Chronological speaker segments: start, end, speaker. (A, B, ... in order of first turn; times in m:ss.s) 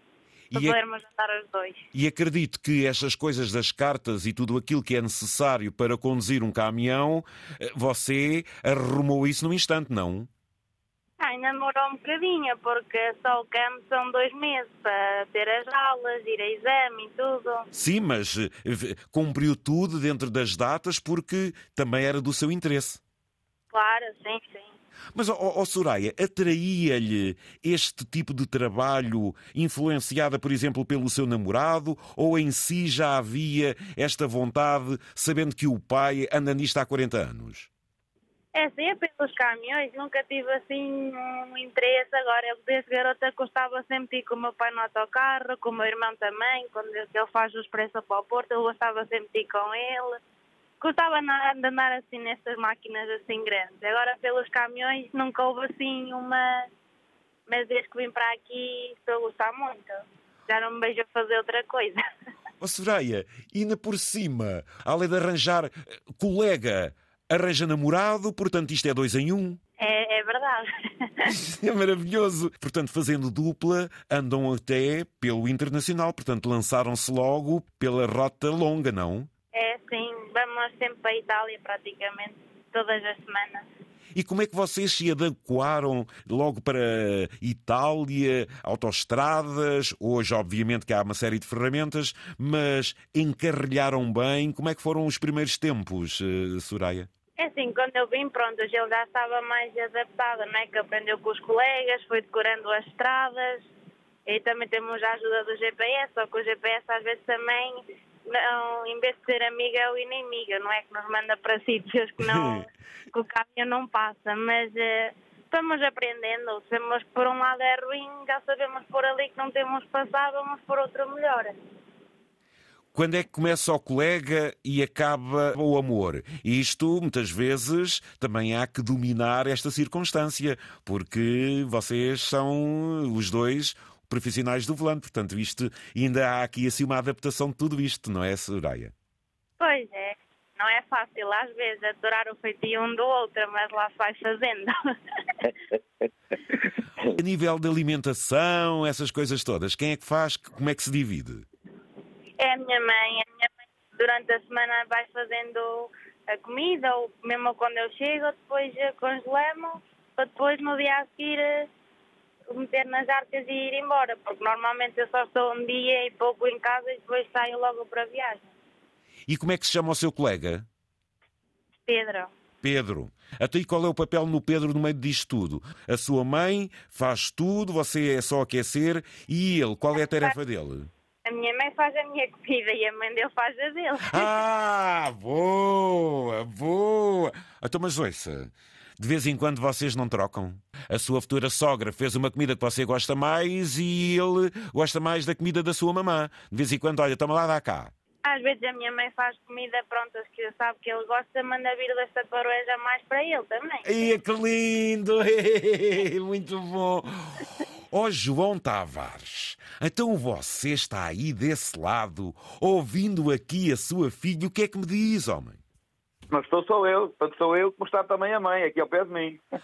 0:00.5-0:00.8 A
0:00.5-0:01.8 B
0:01.9-0:10.3 A
0:11.2-0:17.6 B
0:17.7-0:23.0 A
0:23.7-0:24.7 B
0:25.1-0:37.7 A
0:38.5-0:50.2 B
0:50.8-0:56.7 B
0:57.5-1:02.0 B
1:02.6-1:09.6 A
1:09.8-1:11.3 B
1:11.2-1:19.3 A
1:19.5-1:23.6 B
1:24.1-1:37.1 A
1:37.4-1:43.7 B
1:44.2-2:01.6 B
1:52.2-1:52.6 A
2:02.9-2:18.9 A
2:19.6-2:24.7 B
2:27.1-2:31.4 A
2:32.4-2:41.7 B
2:42.5-2:48.5 B
2:49.3-2:50.6 A
2:51.8-2:52.3 B
2:52.6-3:00.9 A
3:01.2-3:04.4 B
3:04.1-3:17.9 A
3:18.2-3:24.1 B
3:23.8-3:35.6 A
3:36.3-3:39.4 C